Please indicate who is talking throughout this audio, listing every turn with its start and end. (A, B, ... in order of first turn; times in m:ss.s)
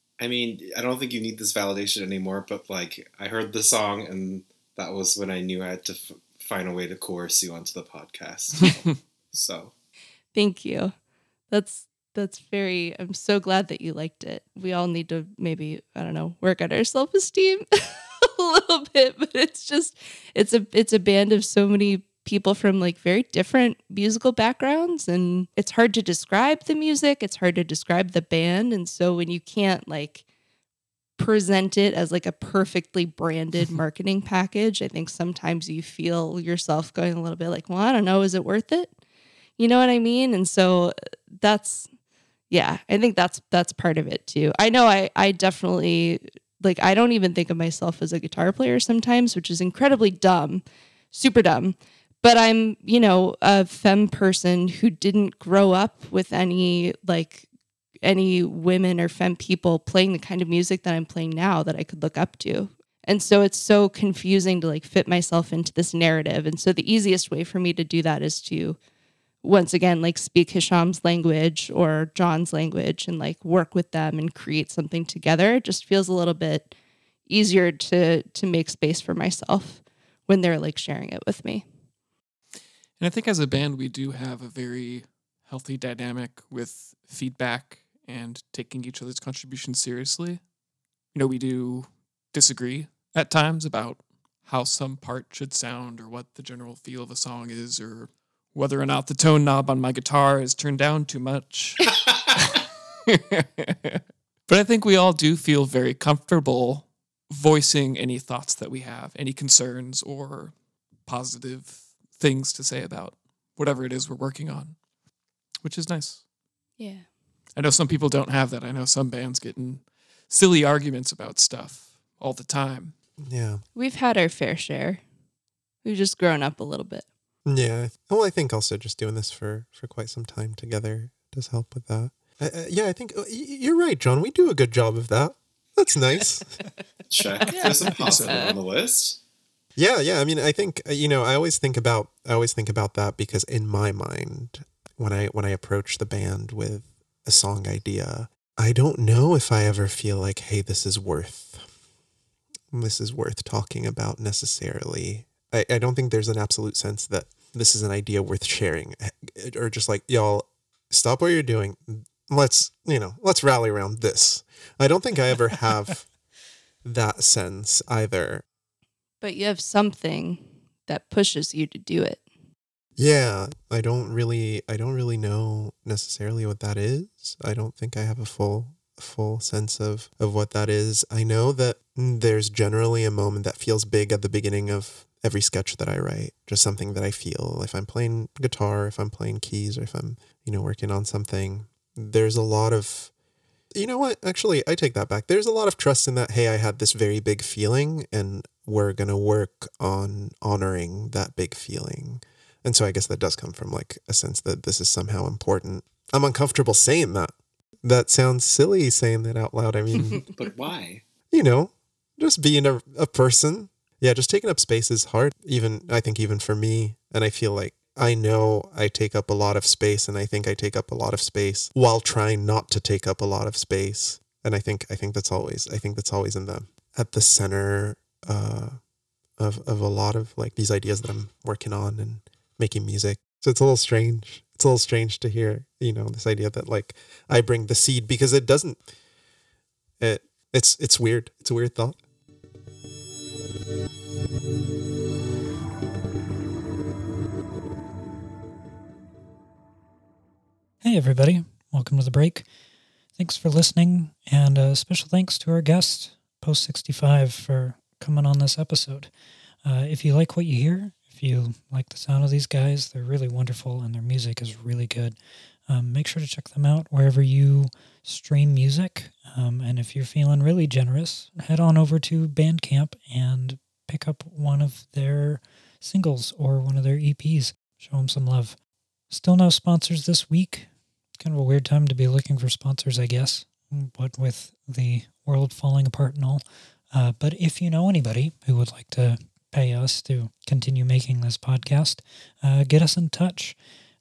0:00.2-0:09.7 A
0:10.3-0:10.9 B
0:11.5-0:30.2 B
0:31.2-0:38.9 B
0:39.6-0:41.9 B
0:42.5-0:57.5 B
0:58.0-1:08.8 B
1:09.4-1:16.7 B
1:17.3-1:21.7 B
1:23.0-1:30.4 C
1:31.1-1:41.9 C
1:43.1-1:50.6 C
1:51.1-1:54.8 C
1:55.6-1:56.2 C
1:56.8-1:57.1 B
1:57.6-2:02.9 C
2:03.2-2:03.6 D
2:03.8-2:05.0 B
2:05.8-2:07.0 B
2:07.5-2:16.5 D
2:17.1-2:19.2 A
2:17.5-2:18.5 C
2:17.5-2:18.6 B
2:19.8-2:31.7 D
2:32.7-2:46.1 D
2:46.8-2:48.4 D
2:49.2-2:52.2 B
2:53.0-3:13.1 D
3:13.7-3:30.2 D
3:30.3-3:31.0 A
3:31.3-3:48.8 D
3:49.4-3:58.8 D
4:00.0-4:02.0 D
4:10.8-4:12.5 E
4:13.2-4:19.1 E
4:19.6-4:25.2 E
4:25.7-4:38.6 E
4:39.1-4:40.7 E
4:41.2-4:53.6 E